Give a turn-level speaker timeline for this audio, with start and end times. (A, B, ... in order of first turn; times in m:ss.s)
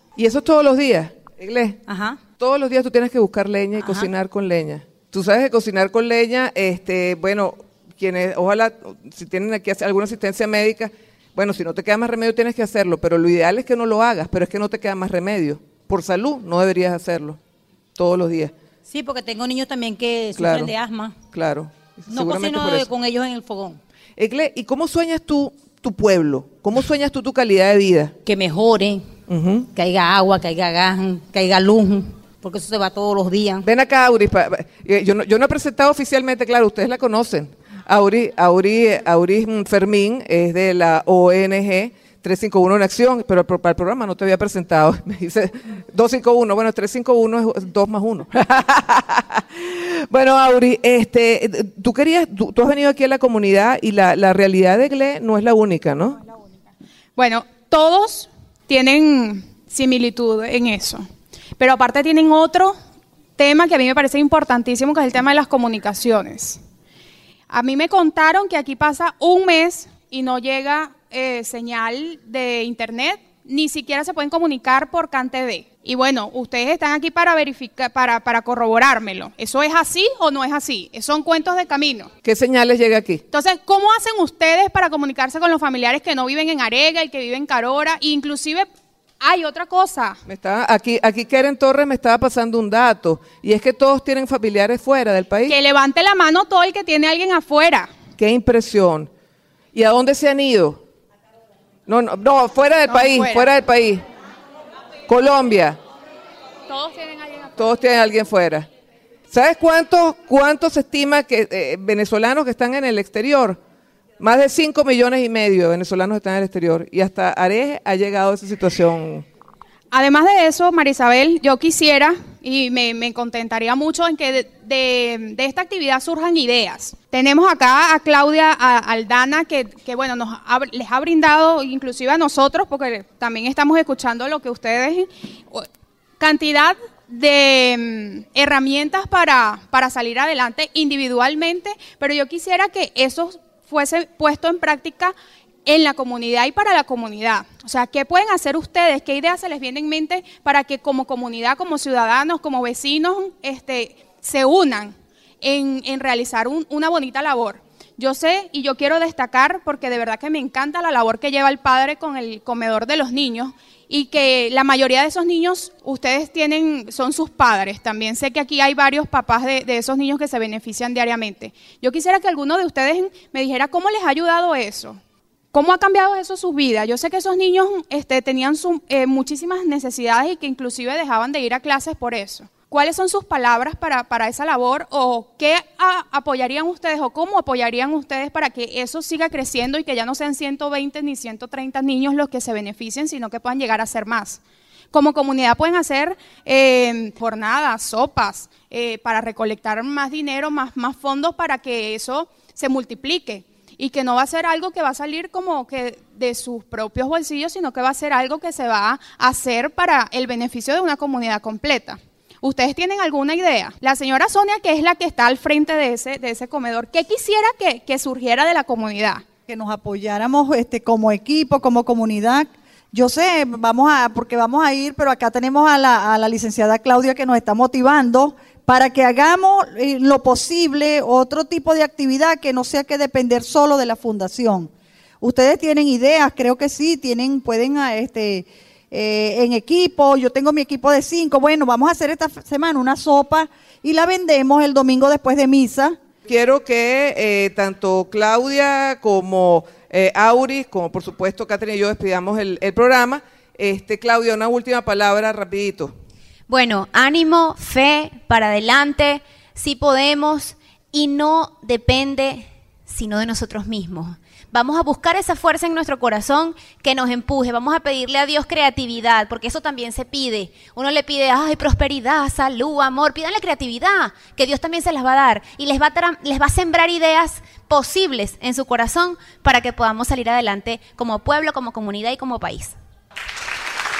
0:00.2-0:01.8 A
0:01.9-0:02.2 B
0:02.3-0:17.4 A
0:03.8-0:04.1 B
0:18.0-0:18.5 A
0:18.9-0:21.2 B
0:20.3-0:20.7 A
0:21.3-0:22.9 A
0:22.1-0:23.8 B
0:24.2-0:28.1 A
0:28.2-0:29.1 B
0:29.3-0:29.7 A
0:29.7-0:33.7 B
0:33.6-0:56.2 A
0:57.2-1:01.1 C
1:01.6-1:02.8 C
1:03.4-1:06.6 C
1:07.5-1:22.1 C
1:22.2-1:23.2 A
1:23.3-1:28.7 C
1:29.2-1:30.2 C
1:30.2-1:35.5 A
1:35.5-1:37.9 C
1:38.2-1:39.1 A
1:39.7-1:40.8 A
1:41.9-1:44.0 A
1:42.9-1:43.5 C
1:45.1-1:45.8 A
1:46.7-1:47.6 C
1:47.6-1:48.7 A
1:49.3-1:53.6 A
1:54.2-1:59.2 A
1:59.9-2:15.7 C
2:16.2-2:25.1 C
2:25.7-2:55.0 C
2:55.5-3:14.4 C
3:14.9-3:39.2 C
3:39.5-3:54.7 D
3:55.2-4:06.0 D
4:06.2-4:15.9 A
4:16.5-4:42.7 E